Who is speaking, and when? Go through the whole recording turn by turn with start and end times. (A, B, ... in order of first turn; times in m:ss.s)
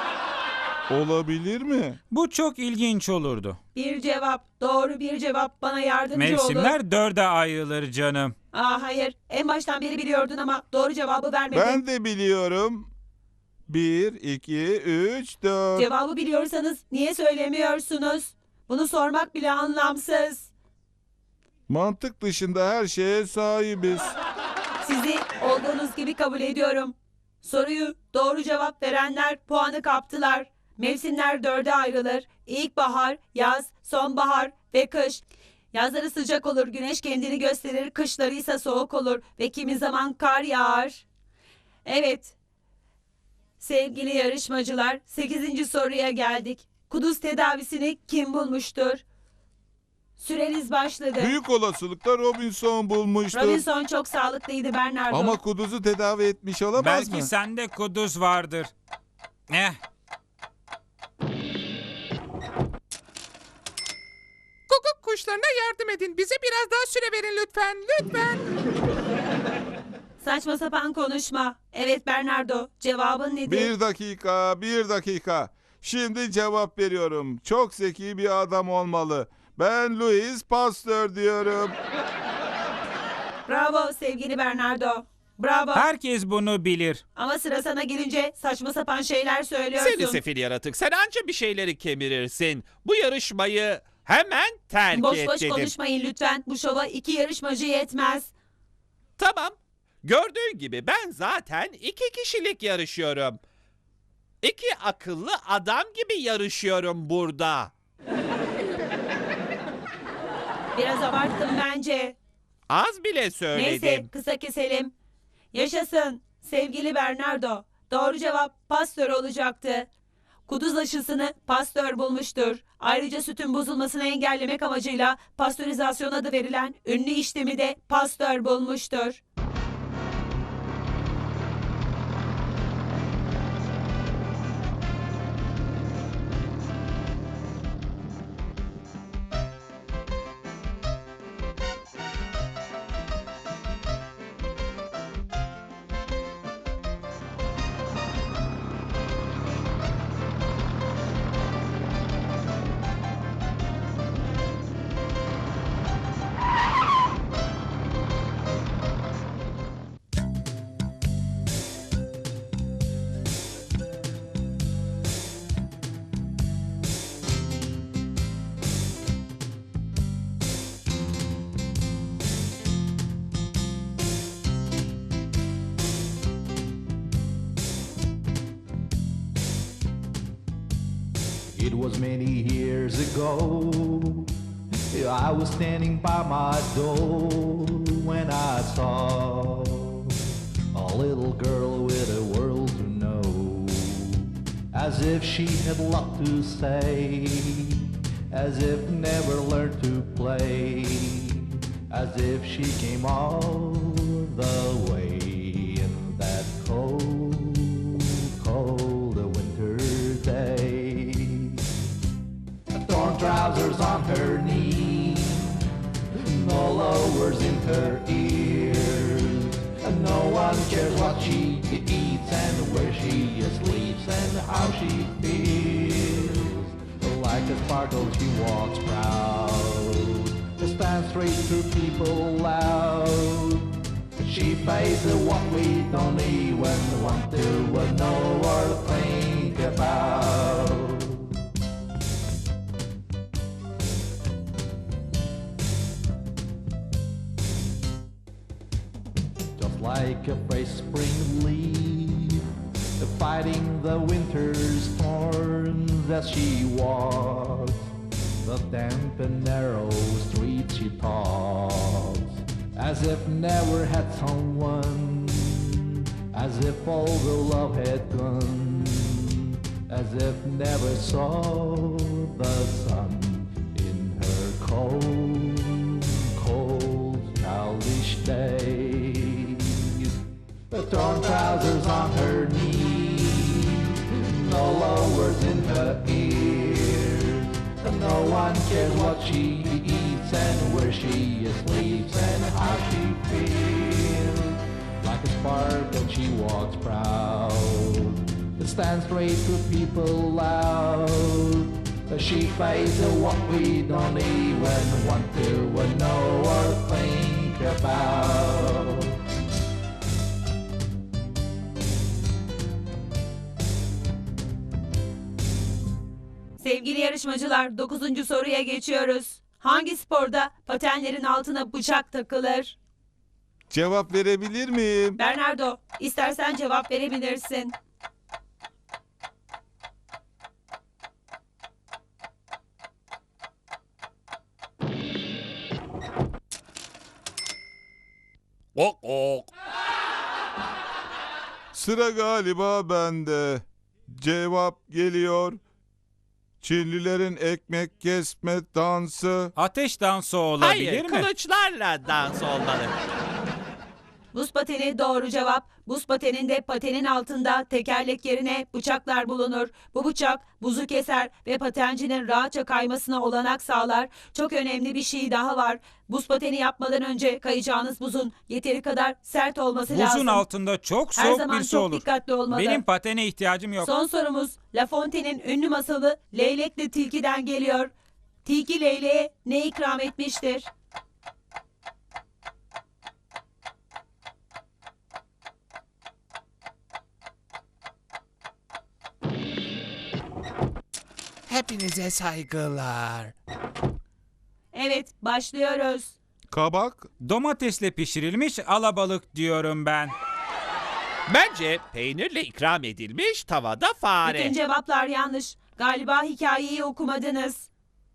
0:00.9-0:02.0 A
0:02.1-0:03.6 B
0:03.7-0:06.7 C
0:06.1-0:08.3 B
0:08.5-0:11.8 C
0:11.5-0:12.9 A
0:13.7-0:15.8 A
0:15.8-0:20.5 C
0:21.7-0:24.1 A
0:24.8-0:41.0 C
0:41.8-0:42.3 C
0:43.6-0:49.0 C
0:50.2-0:51.3 C
0:51.2-0:53.6 A
0:53.3-0:55.4 C
0:55.1-0:57.3 A
0:56.8-0:58.7 B
0:59.5-0:59.8 B
1:04.7-1:08.4 D
1:10.2-1:13.7 C
1:13.4-1:21.7 A
1:23.5-1:25.8 C
1:25.7-1:27.0 B
1:27.1-1:30.2 C
1:29.8-1:35.7 E
1:34.9-1:38.3 C
1:39.2-1:43.4 E
1:44.4-1:47.7 E
1:50.7-1:52.2 C
1:52.7-1:54.1 E
1:53.5-1:54.9 C
1:55.5-1:59.9 C
2:00.5-2:09.2 C
3:01.5-3:04.3 F
3:04.9-3:31.8 F
3:32.7-4:01.4 F
4:09.6-4:40.2 F
4:40.7-5:09.2 F
5:16.6-5:22.8 C
5:23.7-5:25.2 A
5:25.2-5:27.7 C
5:38.8-5:39.5 E
5:41.7-5:45.6 A
5:46.6-5:49.5 A
5:49.5-5:51.3 B
5:50.6-5:52.9 E
5:54.3-6:10.4 C
6:09.9-6:13.9 B
6:11.1-6:12.8 C
6:13.8-6:17.9 C
6:18.4-6:20.7 C
6:31.5-6:33.3 E
6:34.7-6:36.2 C
6:36.5-6:37.1 A
6:37.2-6:40.1 B
6:41.3-6:44.6 E
6:44.2-6:47.7 C